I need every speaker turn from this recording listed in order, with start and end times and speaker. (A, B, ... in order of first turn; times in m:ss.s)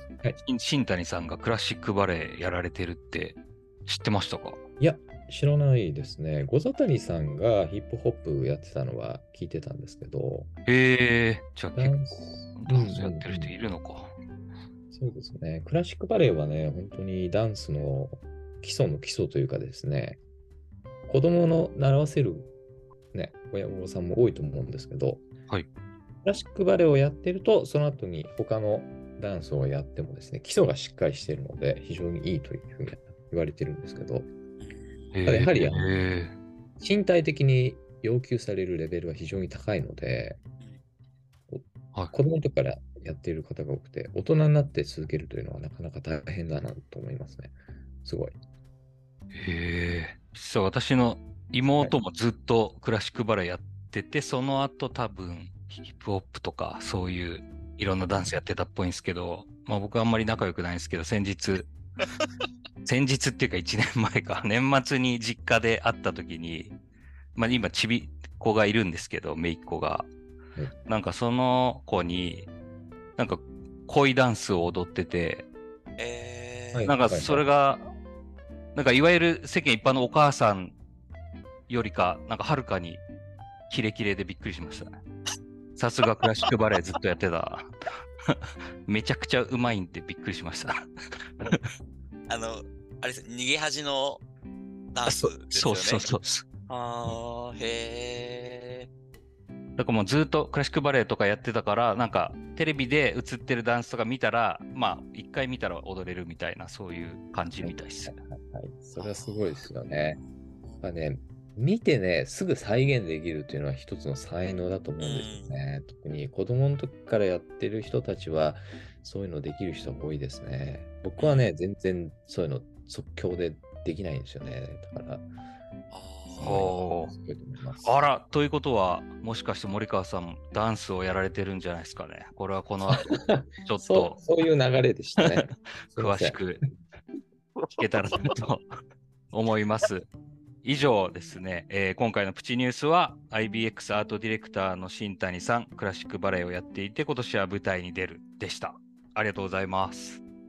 0:00.4-0:04.6 A
0:04.8-0:10.5 B
0:10.7-0:14.1 A
0:11.8-0:13.6 B
0:14.9-0:20.2 B
0:21.1-0:22.5 B
0:23.1-0:25.3 B
0:26.2-0:34.3 B
0:34.6-0:35.1 C
0:35.1-0:36.3 A
0:35.3-0:36.0 B
0:36.8-0:40.4 B
0:41.5-0:48.4 B
0:49.3-1:01.7 A
1:02.8-1:06.8 A
1:07.4-1:10.1 A
1:10.9-1:12.5 A
1:13.2-1:15.5 A
1:16.0-1:16.9 C
1:16.7-1:17.4 B
1:16.9-1:17.8 A
1:18.8-1:20.8 A
1:21.7-1:23.0 A
1:23.7-1:25.0 A
1:25.8-1:27.7 A
1:28.3-1:30.7 A
1:31.4-1:31.7 A
1:32.3-1:34.2 C
1:34.9-1:36.1 C
1:35.1-1:36.5 A
1:36.7-1:38.9 C
1:39.8-1:48.1 A
1:47.6-1:50.2 B
1:49.0-1:49.7 C
1:50.2-1:50.8 C
1:50.8-2:05.3 B
1:55.0-1:55.5 C
2:01.2-2:01.5 C
2:05.9-2:06.6 C
2:06.4-2:08.0 B
2:06.4-2:07.1 A
2:07.8-2:14.2 A
2:12.9-2:16.5 B
2:15.4-2:16.6 A
2:17.6-2:18.3 C
2:17.8-2:18.6 A
2:19.3-2:20.1 A
2:20.6-2:30.2 A